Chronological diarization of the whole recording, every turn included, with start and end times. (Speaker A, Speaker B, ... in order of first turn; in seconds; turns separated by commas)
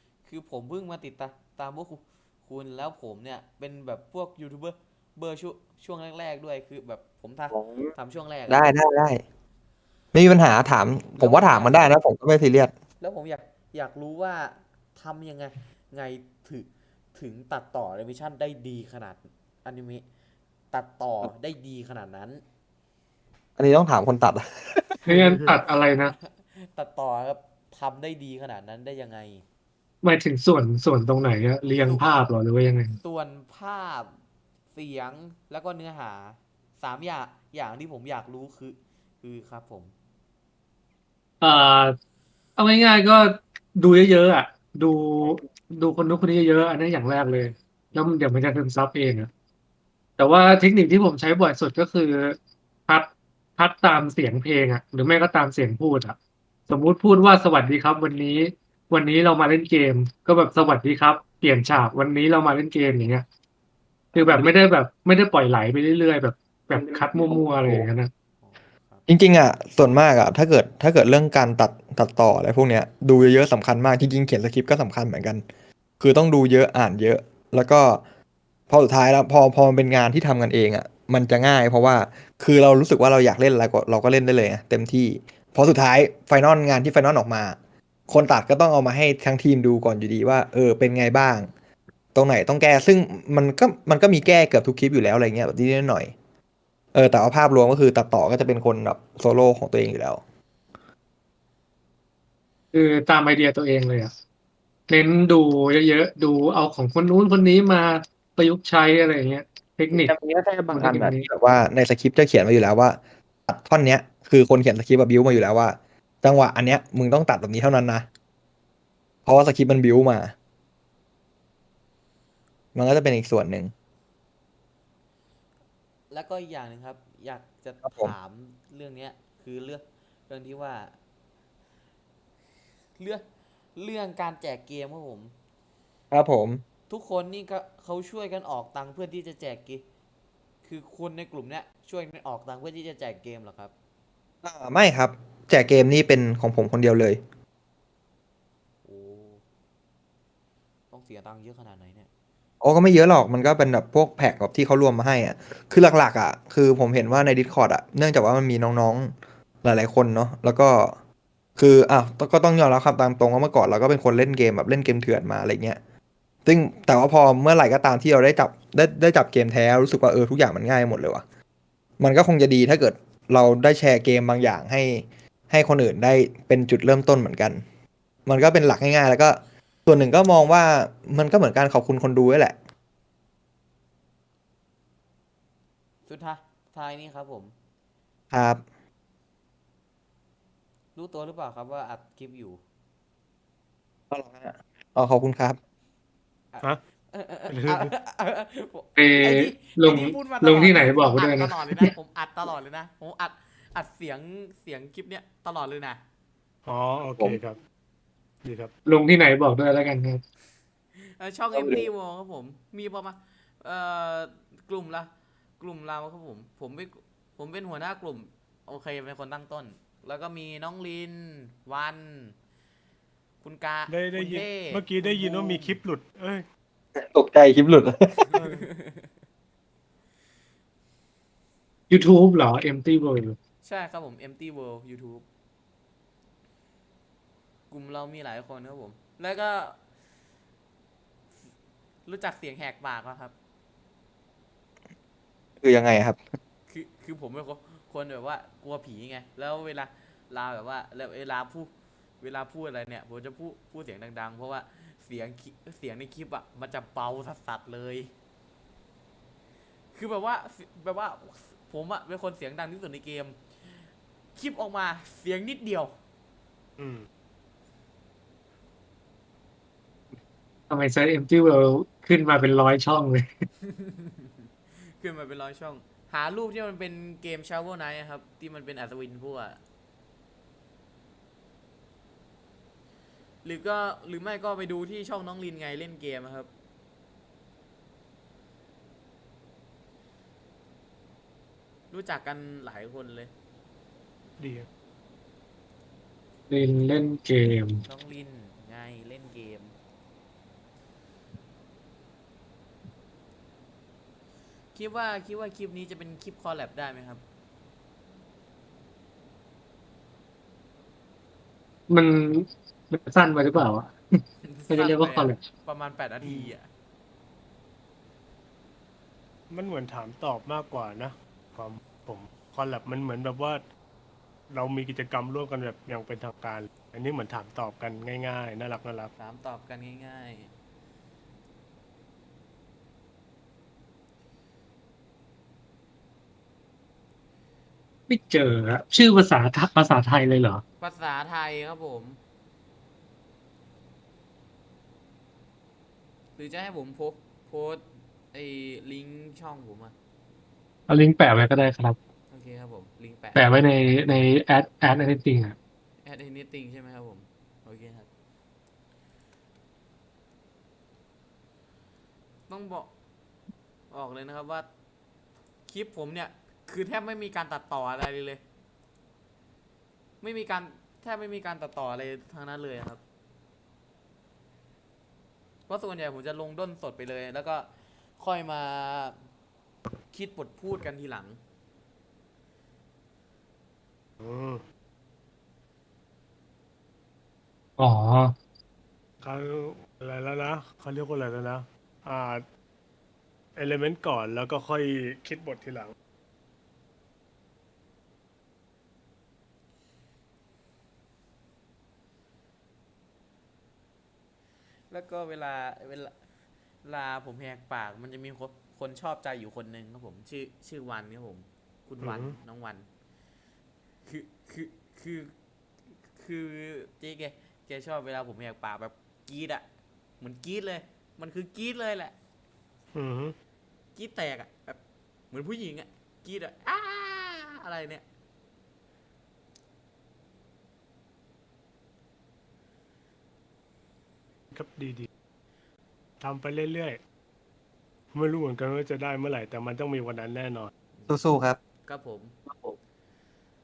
Speaker A: 0.2-8.8, Speaker B: 7.5-7.9, Speaker B: 8.5-9.2, Speaker B: 10.1-12.7, Speaker A: 11.2-12.0, Speaker A: 13.0-20.0, Speaker A: 20.7-22.4, Speaker B: 23.6-25.0, Speaker C: 25.1-26.1, Speaker D: 25.1-25.4, Speaker A: 26.2-29.4, Speaker C: 30.0-33.0, Speaker A: 31.8-32.2, Speaker A: 33.0-34.2, Speaker A: 34.7-39.9, Speaker C: 41.4-42.0, Speaker C: 42.6-49.3, Speaker C: 50.2-52.4, Speaker C: 52.9-56.1, Speaker C: 56.7-63.2, Speaker C: 64.1-68.1, Speaker B: 64.1-64.4, Speaker B: 66.7-67.8, Speaker A: 68.4-69.0, Speaker B: 69.1-75.4, Speaker B: 76.0-78.0, Speaker B: 78.7-87.5, Speaker B: 88.1-91.5, Speaker B: 92.1-96.1, Speaker B: 96.9-100.2, Speaker C: 102.7-104.1, Speaker C: 104.9-110.1, Speaker B: 109.9-118.0, Speaker C: 110.7-111.3, Speaker B: 119.2-120.3, Speaker B: 122.7-123.7, Speaker A: 126.1-130.9, Speaker B: 127.8-128.1, Speaker A: 133.0-133.2, Speaker A: 133.8-135.3, Speaker B: 136.1-136.6, Speaker A: 136.9-139.8, Speaker A: 140.6-143.7, Speaker B: 144.4-147.2, Speaker A: 148.8-149.4, Speaker A: 150.9-152.1, Speaker B: 152.6-160.9, Speaker B: 161.6-165.8, Speaker B: 166.4-171.2, Speaker B: 172.0-177.6, Speaker B: 178.3-182.5, Speaker A: 186.1-187.5, Speaker B: 188.3-188.6, Speaker A: 190.9-192.6, Speaker B: 194.1-195.6, Speaker A: 196.5-206.0, Speaker D: 197.5-197.9, Speaker C: 198.9-201.8, Speaker D: 206.7-207.6, Speaker D: 208.4-208.7, Speaker C: 208.8-210.2, Speaker A: 210.9-222.3, Speaker B: 211.5-211.8, Speaker A: 223.4-225.8, Speaker D: 223.9-226.4, Speaker B: 226.9-228.1, Speaker A: 228.3-229.1, Speaker D: 228.3-228.7, Speaker C: 231.9-233.4, Speaker A: 233.6-235.2, Speaker A: 237.7-239.8, Speaker A: 242.1-243.3, Speaker B: 245.6-246.2, Speaker A: 246.7-258.1, Speaker A: 259.9-266.0, Speaker D: 266.8-267.1, Speaker C: 270.7-273.3, Speaker A: 273.6-279.6, Speaker A: 283.4-286.5, Speaker A: 291.9-293.3, Speaker D: 294.4-294.7, Speaker C: 296.5-297.8, Speaker A: 297.8-299.8, Speaker A: 304.7-307.2, Speaker C: 311.9-315.4, Speaker A: 314.4-316.7, Speaker D: 316.2-316.5, Speaker D: 319.5-323.6, Speaker D: 324.5-329.1, Speaker A: 329.2-330.5, Speaker C: 338.1-340.6, Speaker A: 340.8-342.2, Speaker A: 346.4-349.9, Speaker C: 350.9-352.0, Speaker A: 352.3-353.5, Speaker C: 353.3-355.6, Speaker A: 356.0-358.1, Speaker A: 362.5-362.9, Speaker A: 363.9-364.7, Speaker A: 365.7-368.4, Speaker A: 370.2-373.0, Speaker A: 375.7-379.2, Speaker A: 380.1-381.4, Speaker D: 384.2-384.6, Speaker C: 387.8-388.3, Speaker D: 389.2-392.4, Speaker D: 393.6-395.9, Speaker A: 404.9-406.1, Speaker A: 406.8-412.9, Speaker D: 412.0-412.4, Speaker A: 414.1-415.3, Speaker A: 416.1-419.6, Speaker A: 420.2-422.1, Speaker D: 422.9-423.4, Speaker A: 423.9-424.8, Speaker A: 425.3-428.0, Speaker D: 434.5-435.1, Speaker D: 436.2-437.0, Speaker D: 438.1-440.7, Speaker B: 441.1-441.6, Speaker A: 441.8-442.4, Speaker B: 442.5-442.7